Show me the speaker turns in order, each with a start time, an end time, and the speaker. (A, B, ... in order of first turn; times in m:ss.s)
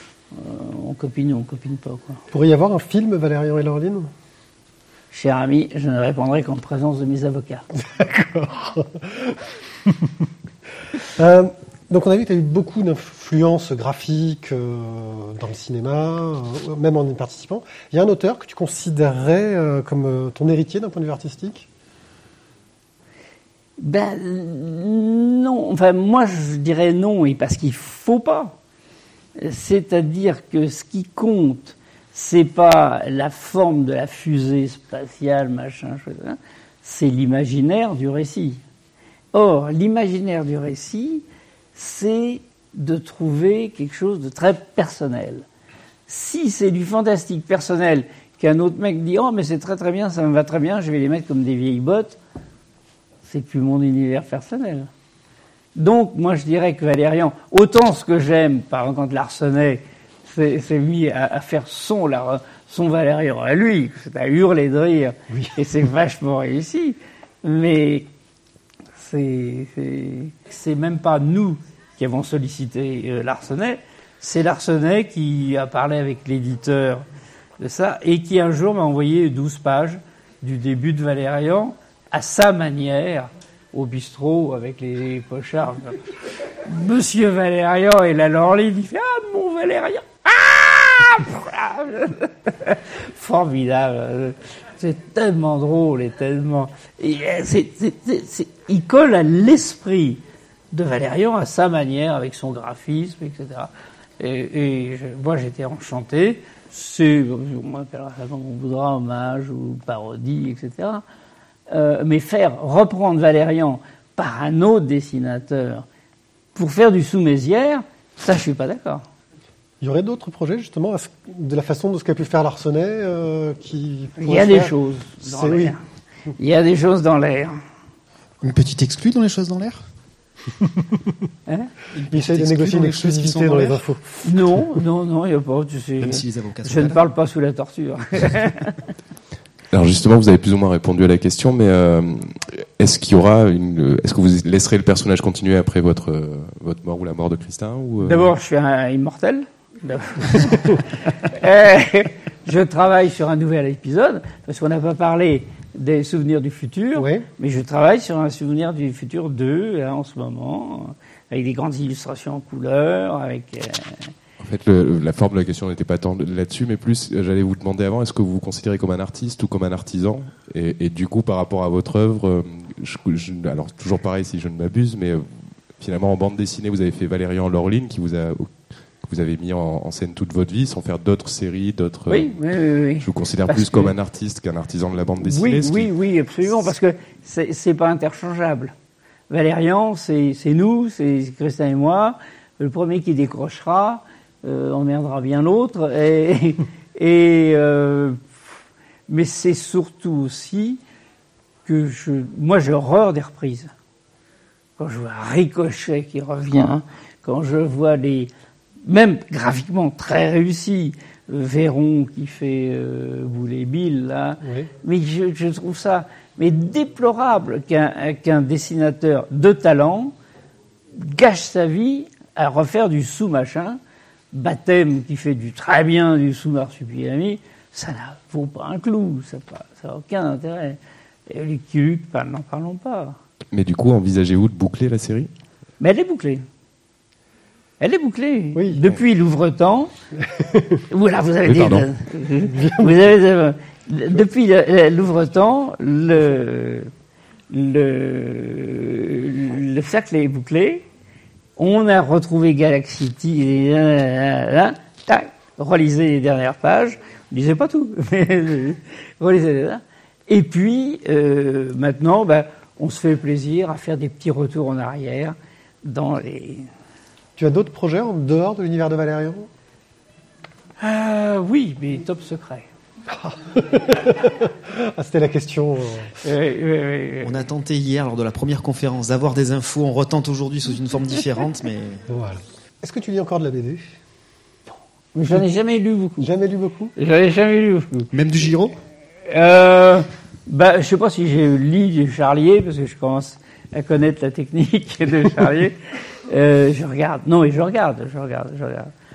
0:00.3-0:02.2 A
0:02.3-0:04.1 B
0:05.1-0:07.6 A
0:07.8-0:10.3 B
0:11.2-0:21.7 B
0:23.8-0:28.6 A
0:29.4-0:38.6 A
0:39.3-0:45.5 A
0:46.1-0:52.2 A
0:53.2-0:54.9 A
0:55.8-1:08.1 A
1:09.0-1:17.0 A
1:17.6-1:26.0 A
1:26.6-1:40.2 A
1:40.7-1:51.0 A
1:51.7-1:55.9 A
1:56.6-1:59.0 A
1:59.8-2:05.8 B
2:04.2-2:05.8 A
2:06.4-2:07.6 A
2:08.4-2:09.8 C
2:11.5-2:11.7 A
2:11.9-2:13.8 C
2:12.1-2:14.1 B
2:14.2-2:18.7 A
2:16.0-2:17.0 C
2:19.7-2:28.3 D
2:28.0-2:44.1 A
2:37.0-2:37.3 B
2:44.4-3:02.4 D
3:02.1-3:03.9 A
3:03.0-3:05.9 D
3:05.2-3:08.7 A
3:09.3-3:18.2 A
3:19.1-3:20.8 A
3:21.7-3:23.7 A
3:24.8-3:28.3 A
3:28.8-3:40.1 A
3:34.4-3:34.7 B
3:40.9-3:43.8 A
3:44.3-3:53.2 A
3:53.5-3:55.3 D
3:55.8-3:56.4 A
3:57.8-3:59.9 A
3:58.5-3:58.8 B
4:00.3-4:00.8 B
4:00.9-4:06.9 A
4:01.4-4:01.9 D
4:02.5-4:03.0 B
4:07.5-4:10.9 A
4:11.6-4:26.7 A
4:27.4-4:29.5 B
4:30.8-4:32.7 A
4:33.1-4:36.2 B
4:36.2-4:37.3 A
4:37.2-4:42.0 C
4:42.1-4:44.0 B
4:45.1-4:46.3 A
4:46.2-4:46.9 B
4:47.0-4:48.1 A
4:48.1-4:48.8 C
4:49.3-4:58.9 A